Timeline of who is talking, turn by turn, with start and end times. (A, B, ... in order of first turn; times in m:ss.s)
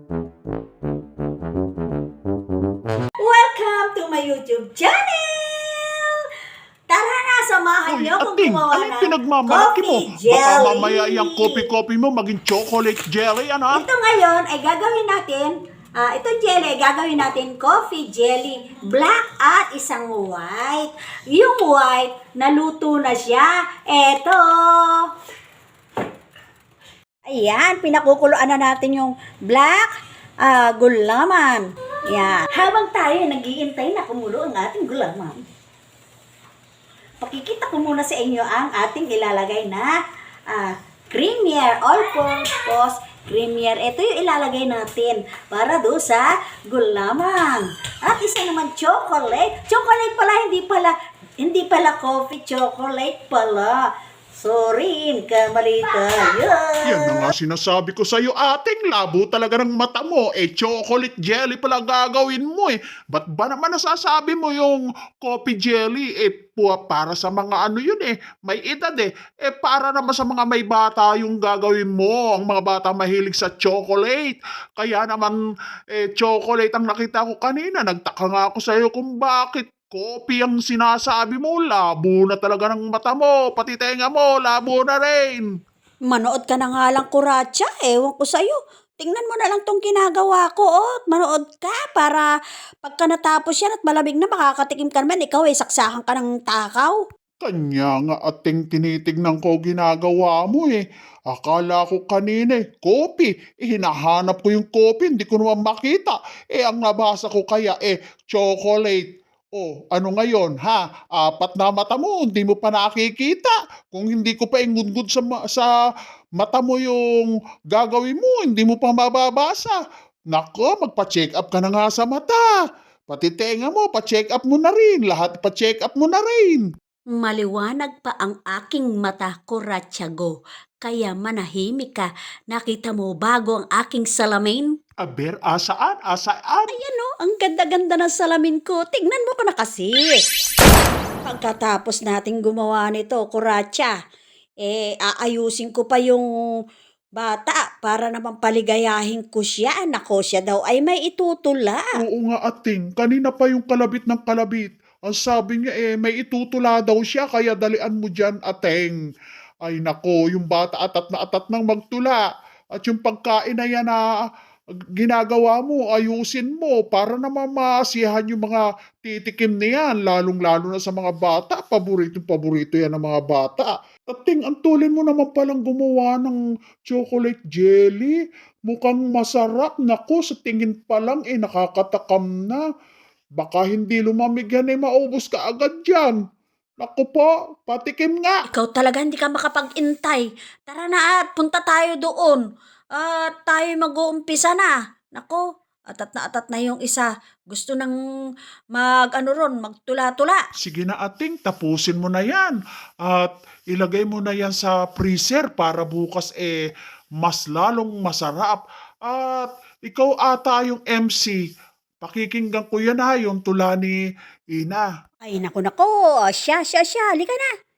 0:03.2-0:06.1 A
0:06.9-0:11.4 A
0:07.9-0:13.8 B
0:13.7-0:25.0 A
0:27.2-0:29.9 A
0:30.4-0:35.4 A
0:37.2-0:39.9 A
0:40.5-0:53.8 A
0:54.4-0:57.2 A
0:56.8-1:15.4 B
1:15.9-1:25.4 B
1:26.1-1:32.3 A
1:32.8-1:37.0 A
1:37.4-1:55.7 B
1:56.4-1:59.8 B
2:00.3-2:02.5 B
2:03.1-2:06.6 B
2:07.1-2:14.7 A
2:15.0-2:16.7 B
2:16.7-2:20.2 A
2:21.2-2:23.9 A
2:24.6-2:26.2 A
2:27.2-2:31.9 A
2:32.0-2:39.0 B
2:39.6-2:42.2 B
2:42.8-2:44.0 B
2:45.0-2:58.2 B
2:58.7-3:02.6 B
3:03.4-3:06.2 B
3:06.8-3:08.4 B
3:08.5-3:12.4 A
3:13.0-3:15.4 A
3:15.9-3:18.0 A
3:18.7-3:20.4 A
3:20.6-3:26.6 B
3:27.2-3:31.4 B
3:32.0-3:34.0 B
3:34.5-3:34.9 B
3:35.2-3:37.4 A